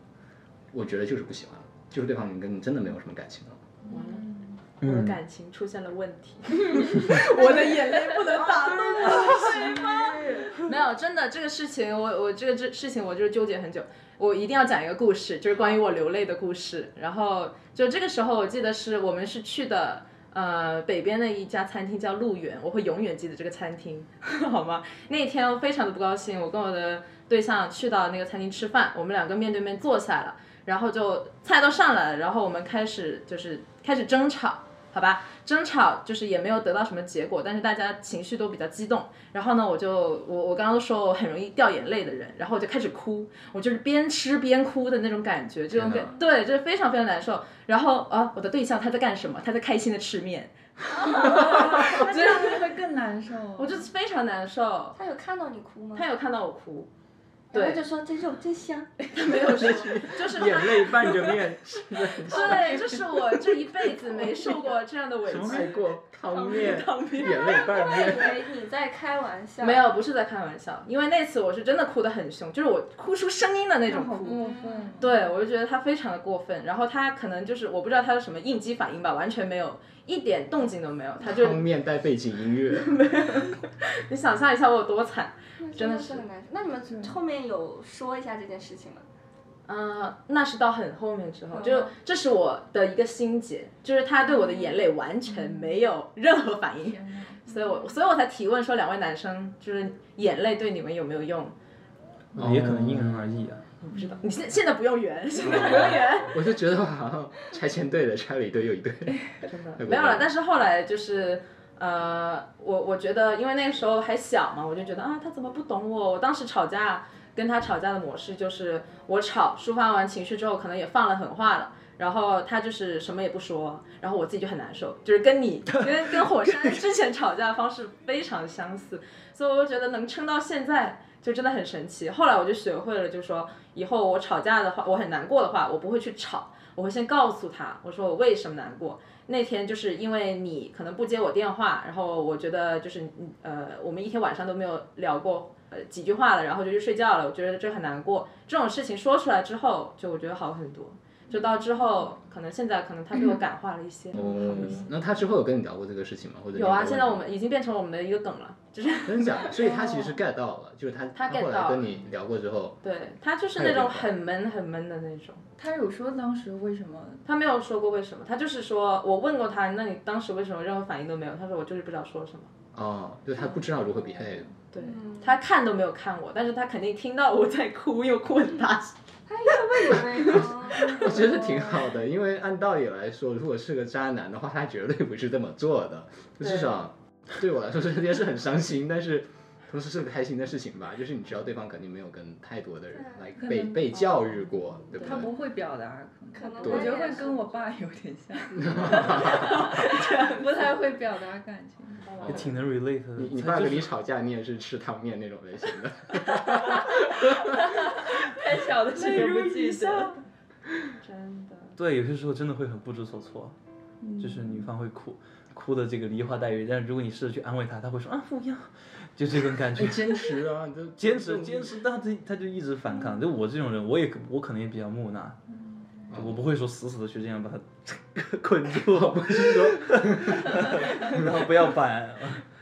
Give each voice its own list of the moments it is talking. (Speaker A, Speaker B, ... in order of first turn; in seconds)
Speaker A: 0.7-3.6, 45.7-46.1, 59.5-63.0, 65.3-68.4, 81.2-83.0, 102.4-103.3, 105.4-109.2, 109.8-110.3, 154.1-157.2, 159.1-162.8, 163.6-164.1, 172.7-174.5, 180.3-195.3, 196.6-196.9, 198.6-199.7, 202.2-202.6, 203.2-207.9, 219.8-221.8, 226.1-226.4, 228.9-231.3
Speaker B: 3.9-9.9, 10.5-52.8, 53.6-55.0, 56.0-56.9, 57.5-57.8, 59.1-61.4, 62.2-67.9, 69.6-81.6, 82.8-86.2, 89.7-101.5, 103.8-106.4, 109.4-154.9, 156.5-159.6, 161.1-161.9, 162.8-165.4, 167.3-172.5, 174.7-178.9, 179.5-181.1, 186.4-186.7, 193.9-195.2, 199.2-200.5, 202.0-202.5, 208.9-210.2, 211.0-211.8
Speaker C: 3.9-4.6, 9.3-10.5, 51.1-53.9, 73.9-75.2, 86.9-87.2, 95.4-95.8, 96.8-97.8, 103.9-104.3, 165.6-167.2, 193.4-193.9, 194.9-202.2, 207.3-210.2, 214.0-214.7
Speaker D: 4.8-5.2, 65.3-65.7, 102.4-103.6, 202.2-203.9, 211.8-213.6, 214.2-220.2, 221.0-225.4, 226.1-232.5
Speaker E: 6.9-10.5, 50.9-52.2, 55.0-56.1, 57.5-60.0, 67.3-69.9, 74.3-75.0, 85.6-89.0, 174.8-175.4, 179.3-181.4, 192.9-193.2, 196.3-197.7